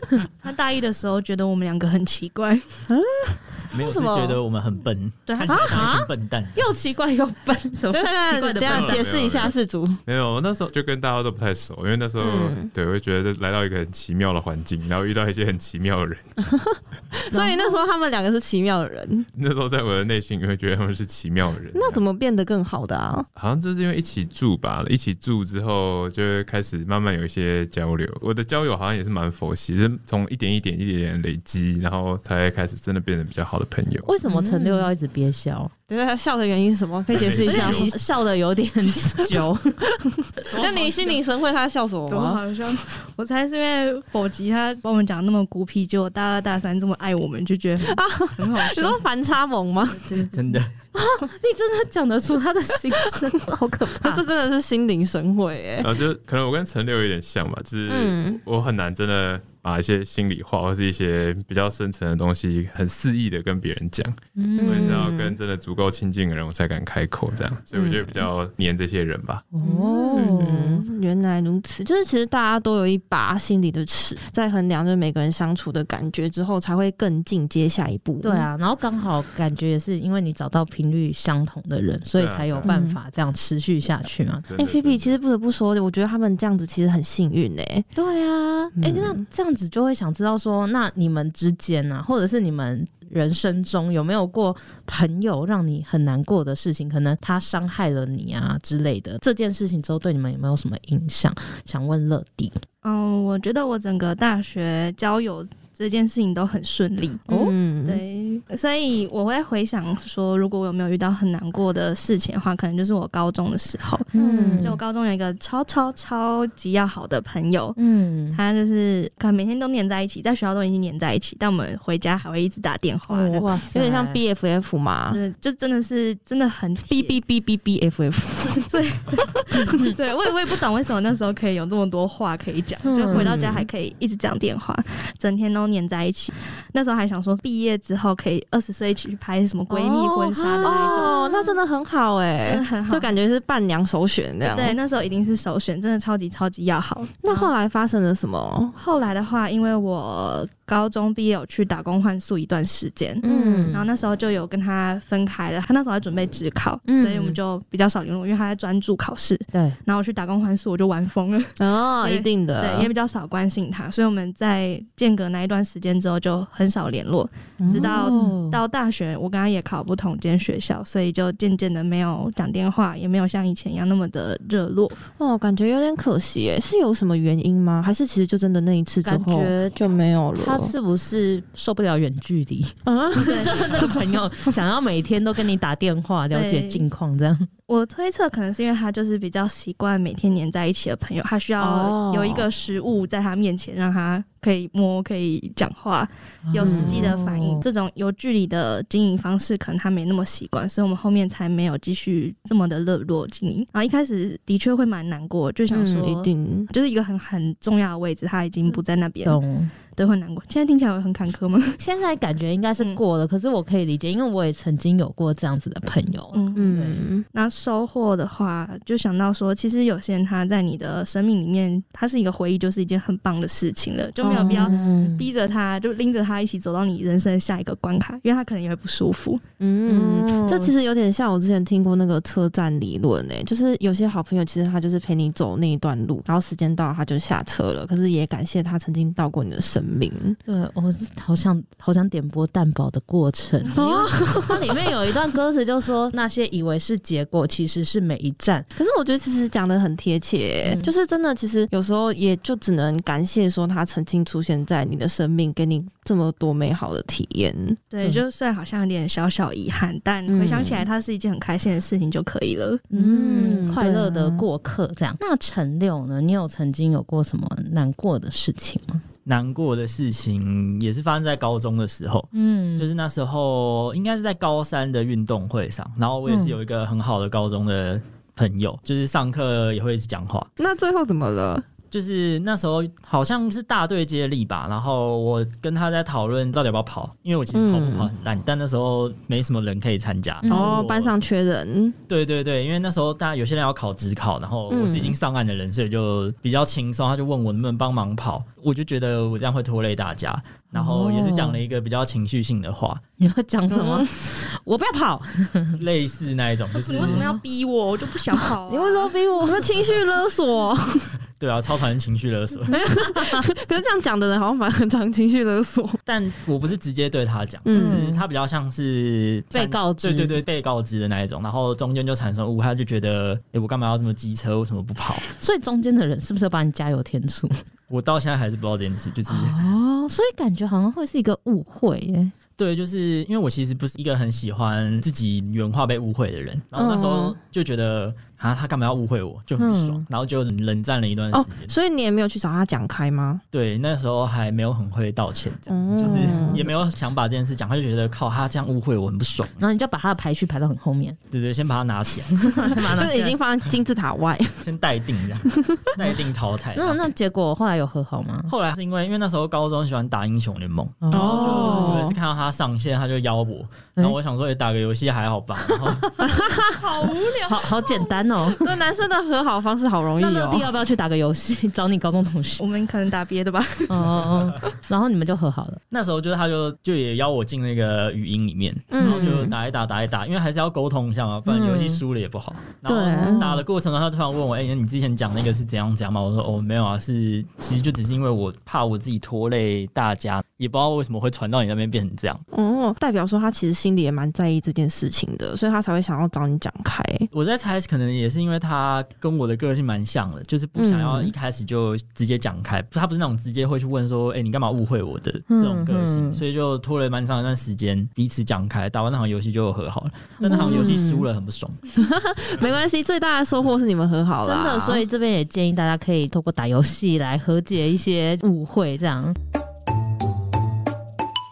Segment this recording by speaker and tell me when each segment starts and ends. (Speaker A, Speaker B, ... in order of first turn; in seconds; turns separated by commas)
Speaker A: 0.4-2.8, Speaker B: 2.9-4.4, Speaker C: 3.7-6.6, Speaker A: 5.3-5.6, Speaker D: 5.5-9.5, Speaker B: 7.9-10.0, Speaker E: 8.6-16.3, Speaker B: 12.2-12.7, Speaker B: 16.6-19.3, Speaker D: 17.3-17.7, Speaker E: 19.4-22.0, Speaker B: 21.7-23.2, Speaker E: 23.4-34.1, Speaker D: 34.0-35.7, Speaker B: 34.2-34.9, Speaker B: 35.9-37.9, Speaker E: 37.1-37.9, Speaker D: 37.4-39.8, Speaker B: 38.9-39.5, Speaker B: 40.5-42.4, Speaker A: 40.5-41.2, Speaker A: 42.1-49.0, Speaker B: 47.8-50.2, Speaker A: 50.0-50.5, Speaker C: 50.3-50.7, Speaker D: 50.9-54.2, Speaker B: 54.0-55.9, Speaker E: 55.8-69.5, Speaker B: 57.9-58.4, Speaker D: 64.3-65.1, Speaker B: 64.6-65.4, Speaker B: 67.7-68.2, Speaker D: 69.5-70.7, Speaker B: 69.6-78.5, Speaker E: 70.1-70.8, Speaker D: 78.2-84.5, Speaker E: 82.1-82.7, Speaker B: 82.6-83.0, Speaker E: 84.5-85.2, Speaker B: 84.6-87.9, Speaker D: 88.0-102.6, Speaker B: 88.7-89.2, Speaker A: 102.8-107.3, Speaker B: 107.3-108.0, Speaker D: 107.3-107.5, Speaker A: 107.8-114.1, Speaker D: 114.1-114.8, Speaker B: 114.2-114.8, Speaker A: 114.6-117.8, Speaker D: 117.8-118.4, Speaker A: 118.3-123.5, Speaker D: 123.1-124.2, Speaker B: 123.3-125.2, Speaker A: 125.1-127.2, Speaker B: 126.9-128.7, Speaker A: 128.6-141.6, Speaker D: 132.8-133.3, Speaker B: 133.1-133.7, Speaker B: 139.7-144.8, Speaker D: 140.6-141.1, Speaker A: 142.4-143.1, Speaker A: 144.4-147.5, Speaker B: 147.2-148.8, Speaker A: 148.8-175.0, Speaker D: 153.2-153.9, Speaker B: 153.2-153.8, Speaker D: 156.9-157.4, Speaker D: 159.5-159.8, Speaker B: 161.6-162.9, Speaker B: 167.6-168.3, Speaker D: 167.7-168.6, Speaker B: 175.2-180.7, Speaker D: 179.0-179.8, Speaker D: 180.3-187.5, Speaker B: 182.8-184.0, Speaker A: 183.2-183.8, Speaker A: 186.3-186.8, Speaker A: 187.7-209.4, Speaker B: 191.6-192.5, Speaker D: 196.4-197.6, Speaker B: 196.6-197.1, Speaker B: 205.7-206.7, Speaker D: 209.2-209.7, Speaker A: 209.9-211.8, Speaker D: 211.8-217.0, Speaker A: 216.3-216.7, Speaker B: 216.5-217.2, Speaker A: 217.3-229.4, Speaker B: 224.2-225.1, Speaker D: 224.4-225.2, Speaker B: 229.6-240.4, Speaker D: 229.9-230.7, Speaker D: 240.5-248.7, Speaker B: 243.7-244.6, Speaker B: 248.7-257.8, Speaker D: 250.6-250.9, Speaker A: 257.9-262.8, Speaker B: 260.3-260.9, Speaker D: 262.9-269.0, Speaker B: 262.9-264.5, Speaker C: 269.2-280.5, Speaker D: 272.3-272.9, Speaker D: 276.3-276.6, Speaker B: 280.6-281.6, Speaker C: 281.9-291.1, Speaker B: 287.5-288.1, Speaker D: 290.4-290.8, Speaker B: 290.4-291.9, Speaker C: 292.1-303.0, Speaker B: 294.7-295.2, Speaker D: 300.7-301.6, Speaker D: 303.2-305.8, Speaker B: 303.7-304.1, Speaker C: 305.8-307.3, Speaker A: 306.9-309.2, Speaker D: 307.0-307.4, Speaker B: 308.6-311.1, Speaker C: 311.4-312.8, Speaker B: 312.7-316.0, Speaker D: 313.0-313.4, Speaker C: 316.1-325.3, Speaker B: 317.6-318.2, Speaker D: 317.8-318.1, Speaker D: 319.5-320.4, Speaker D: 325.4-327.6, Speaker C: 327.9-329.6, Speaker D: 329.3-332.3, Speaker C: 332.6-341.7, Speaker B: 336.7-337.4, Speaker D: 339.6-340.1, Speaker B: 341.3-343.4, Speaker C: 343.5-349.6, Speaker B: 345.7-346.7, Speaker D: 349.6-351.2, Speaker C: 351.3-352.9, Speaker D: 352.5-353.4, Speaker B: 352.9-354.6, Speaker C: 354.6-357.0, Speaker B: 355.5-356.0, Speaker D: 356.8-358.5, Speaker C: 358.5-366.2, Speaker D: 361.0-362.0, Speaker B: 361.1-362.2, Speaker D: 366.0-366.3, Speaker B: 366.2-366.8, Speaker A: 366.6-368.1, Speaker D: 367.4-368.7, Speaker B: 368.4-370.7, Speaker D: 370.2-372.6, Speaker A: 372.6-374.3, Speaker D: 373.9-375.8, Speaker C: 375.9-392.4, Speaker B: 378.9-379.6, Speaker D: 379.0-379.4, Speaker D: 381.5-382.0, Speaker B: 382.9-383.5, Speaker D: 383.3-383.6, Speaker B: 392.5-397.3, Speaker C: 397.3-411.8, Speaker B: 400.8-401.3, Speaker D: 405.5-406.4, Speaker D: 410.4-411.0, Speaker B: 410.4-411.3, Speaker B: 411.9-415.0, Speaker D: 414.4-419.4